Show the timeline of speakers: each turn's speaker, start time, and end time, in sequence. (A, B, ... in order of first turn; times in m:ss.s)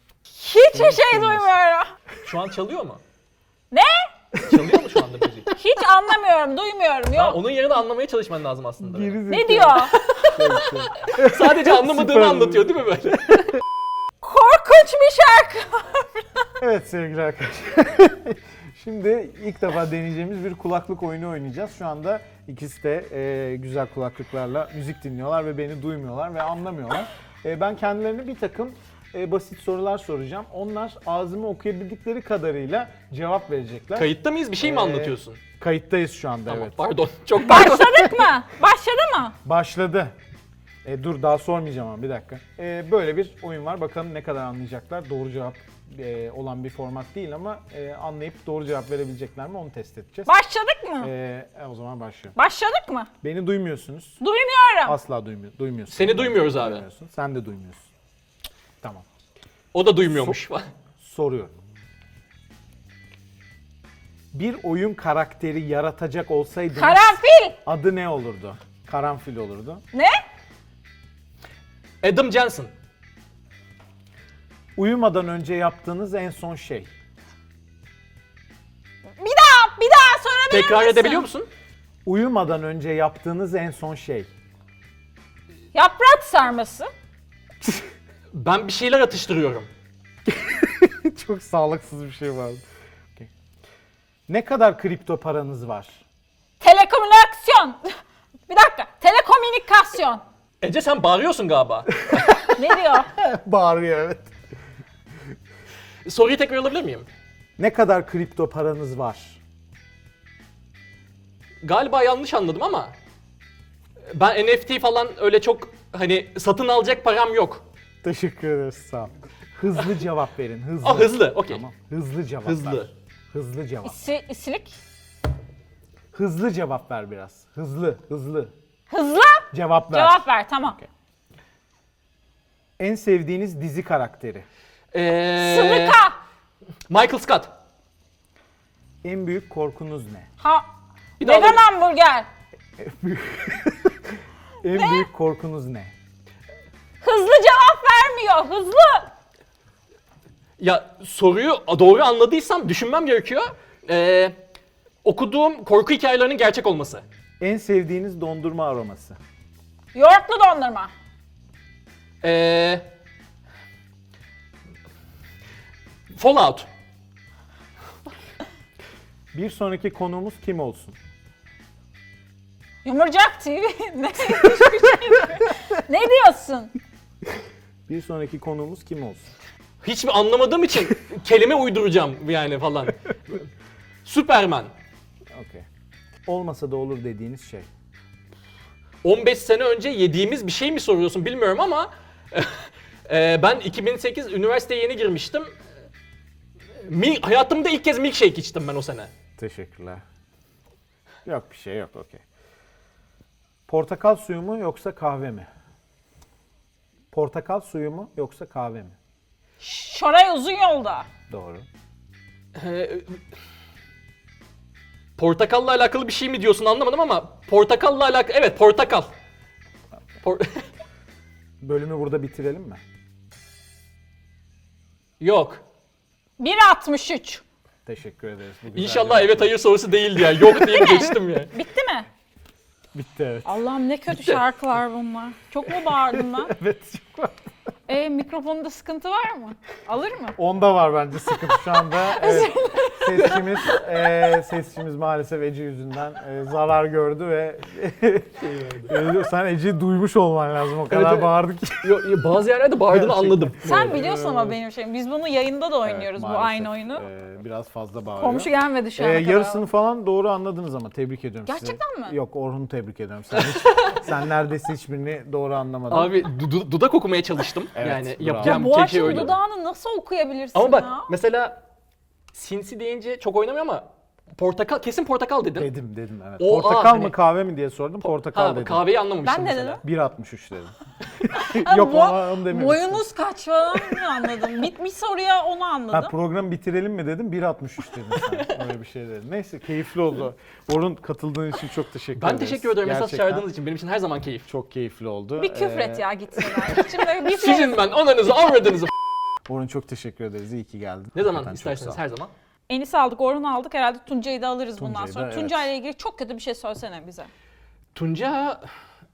0:00.3-0:01.9 A
0:00.7-0:01.5 B
0:02.2-0:03.0 C
0:03.7-0:04.1 A
0:04.4-0:05.5 C
0:05.5-0:07.4 A
0:07.1-0:09.2 C
0:08.8-0:12.7 B
0:09.3-0:10.0 A
0:09.9-0:13.6 C
0:14.2-0:16.2 A
0:16.6-0:36.8 B
0:34.0-0:35.4 C
0:36.5-0:38.0 C
0:37.4-0:39.4 A
0:39.4-0:40.1 B
0:40.8-0:50.3 B
0:50.3-0:51.1 A
0:51.0-0:52.4 B
0:52.4-0:53.1 A
0:53.2-0:54.2 B
0:54.2-0:55.0 A
0:54.8-0:57.9 B
0:55.9-0:56.8 C
0:59.7-1:00.7 C
1:00.1-1:00.4 B
1:01.0-1:01.6 B
1:04.3-1:09.8 B
1:06.7-1:07.6 A
1:09.9-1:10.2 A
1:12.0-1:12.7 C
1:14.8-1:16.9 B
1:19.2-1:21.3 A
1:20.5-1:21.5 C
1:22.0-1:24.3 B
1:25.7-1:26.9 A
1:28.3-1:29.7 C
1:30.3-1:32.6 B
1:34.3-1:36.0 B
1:36.6-1:37.8 A
1:38.5-1:40.2 A
1:40.6-1:42.4 C
1:42.5-1:43.1 A
1:42.9-1:44.3 B
1:46.0-1:47.1 C
1:47.6-1:49.4 B
1:51.6-1:52.9 C
1:54.1-1:57.6 C
1:58.0-2:04.0 B
2:00.8-2:01.6 C
2:02.4-2:02.9 C
2:03.8-2:04.8 A
2:06.1-2:08.5 B
2:08.9-2:10.8 A
2:09.5-2:10.9 B
2:12.8-2:14.5 B
2:14.9-2:16.0 C
2:15.4-2:16.2 A
2:16.9-2:17.5 C
2:19.0-2:20.3 B
2:20.4-2:20.7 A
2:21.2-2:21.6 C
2:21.2-2:22.3 A
2:22.8-2:24.1 B
2:24.6-2:25.9 B
2:24.7-2:25.1 A
2:27.0-2:29.1 A
2:30.6-2:34.4 C
2:35.0-2:37.0 C
2:37.4-2:39.2 B
2:39.9-2:40.9 A
2:42.2-2:42.8 C
2:46.1-2:46.7 C
2:49.3-2:51.0 B
2:52.8-2:56.7 A
2:57.9-2:59.3 B
2:59.8-3:03.5 C
3:04.0-3:04.7 C
3:05.3-3:05.6 B
3:06.3-3:07.7 B
3:09.0-3:15.5 C
3:16.8-3:19.1 C
3:19.4-3:20.0 B
3:21.3-3:22.2 B
3:23.7-3:25.5 B
3:27.1-3:29.0 B
3:29.6-3:31.1 A
3:31.3-3:31.6 B
3:32.6-3:33.2 C
3:35.2-3:39.1 C
3:40.2-3:40.6 C
3:41.6-3:42.8 B
3:45.2-3:45.6 C
3:46.4-3:47.4 A
3:47.8-3:49.6 B
3:48.8-3:51.5 C
3:50.6-3:52.1 A
3:52.9-3:53.6 B
3:53.4-3:56.5 A
3:56.1-3:57.4 B
3:57.9-4:00.4 A
4:00.4-4:08.4 B
4:02.0-4:03.3 A
4:03.2-4:03.8 C
4:08.4-4:09.0 C
4:08.9-4:12.1 B
4:10.9-4:14.6 C
4:12.9-4:13.5 B
4:13.6-4:17.0 A
4:15.8-4:26.1 B
4:18.2-4:19.6 A
4:21.5-4:22.2 A
4:23.4-4:24.0 C
4:25.9-4:29.4 C
4:27.8-4:29.4 B
4:28.4-4:31.1 A
4:30.5-4:31.6 C
4:32.3-4:35.7 C
4:35.6-4:38.9 B
4:36.4-4:37.2 C
4:38.0-4:39.8 C
4:39.2-4:39.8 A
4:39.8-4:43.1 B
4:41.5-4:46.1 A
4:45.9-4:53.5 B
4:48.1-4:48.6 C
4:52.2-4:54.5 C
4:54.5-4:56.8 B
4:55.4-4:57.9 A
4:57.0-4:58.9 C
4:59.5-5:02.0 B
5:01.2-5:02.3 C
5:02.7-5:07.3 A
5:04.8-5:05.7 B
5:08.0-5:08.6 C